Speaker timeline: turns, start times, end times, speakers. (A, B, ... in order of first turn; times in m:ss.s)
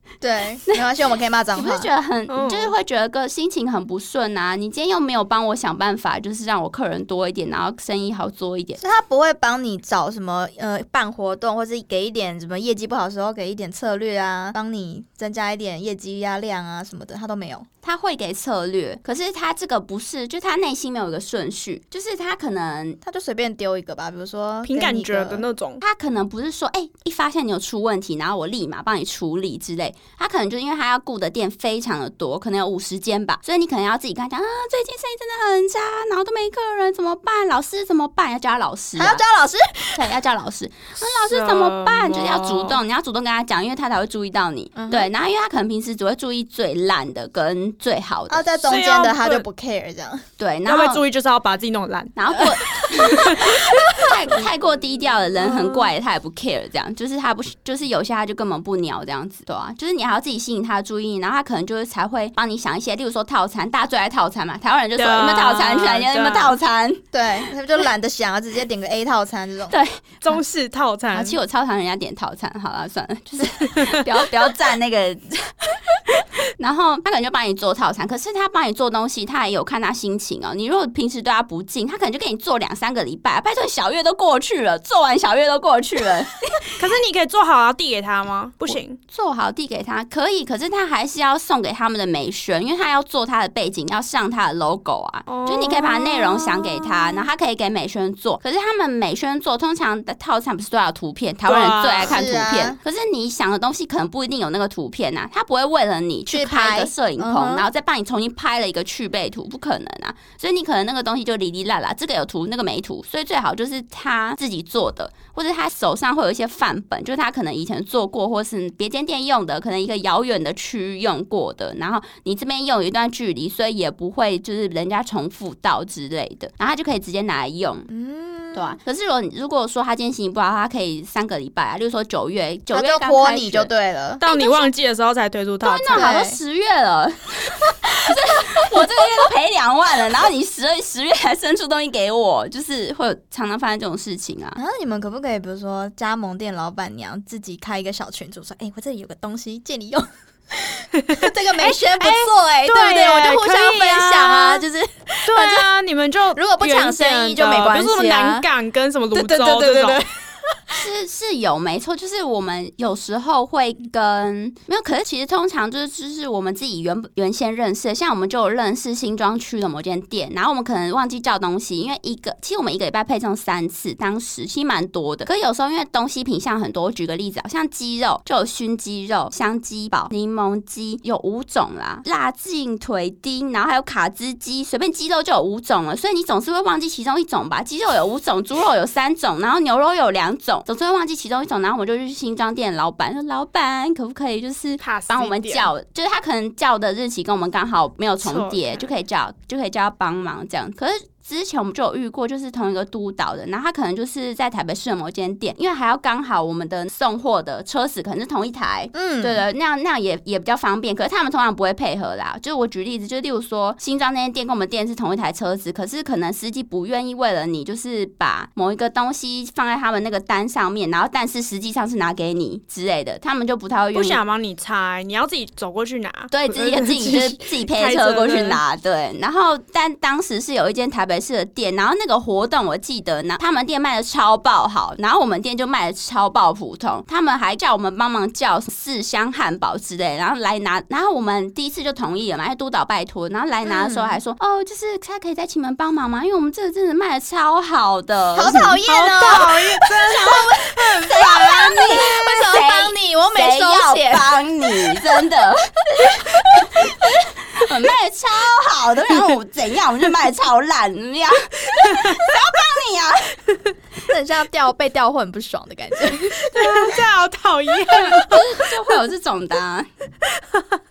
0:00.2-0:01.9 A
0:01.5-0:08.8 B
0:02.3-0:02.7 C
0:08.8-0:17.7 A
0:17.8-0:23.0 B
0:23.0-0:25.4 A
0:24.6-0:25.8 C
0:25.8-0:39.2 B
0:39.0-0:40.1 A
0:39.9-0:48.7 B
0:41.0-0:42.8 C
0:44.8-0:45.1 A
0:48.3-0:50.2 A
0:48.6-0:49.4 C
0:50.4-0:51.0 B
0:50.6-0:54.1 C
0:52.2-1:07.0 B
0:55.4-0:55.9 C
1:05.0-1:06.6 C
1:07.1-1:09.7 A
1:09.7-1:10.2 B
1:10.2-1:11.4 C
1:11.1-1:26.6 B
1:13.6-1:14.0 C
1:26.8-1:29.0 C
1:28.7-2:07.9 B
1:35.3-1:37.1 C
1:41.5-1:42.2 C
1:42.0-1:42.8 A
1:46.3-1:47.6 A
2:07.9-2:08.8 A
2:08.5-2:13.7 B
2:12.7-2:14.2 A
2:14.2-2:16.1 C
2:14.2-2:14.7 B
2:15.6-2:24.6 B
2:15.9-2:16.4 A
2:24.6-2:35.7 A
2:30.9-2:34.6 C
2:35.2-2:40.0 C
2:36.3-2:38.4 A
2:39.1-2:40.8 A
2:40.7-3:44.2 B
3:14.8-3:15.7 C
3:18.2-3:18.9 C
3:28.9-3:29.4 A
3:43.9-3:48.6 C
3:46.3-4:09.5 B
4:03.6-4:04.2 A
4:08.3-4:15.0 A
4:08.9-4:10.4 C
4:10.1-4:23.4 B
4:16.0-4:16.7 A
4:21.8-4:22.3 C
4:24.1-4:27.0 A
4:26.5-4:28.6 C
4:28.1-4:29.9 B
4:30.2-4:30.8 C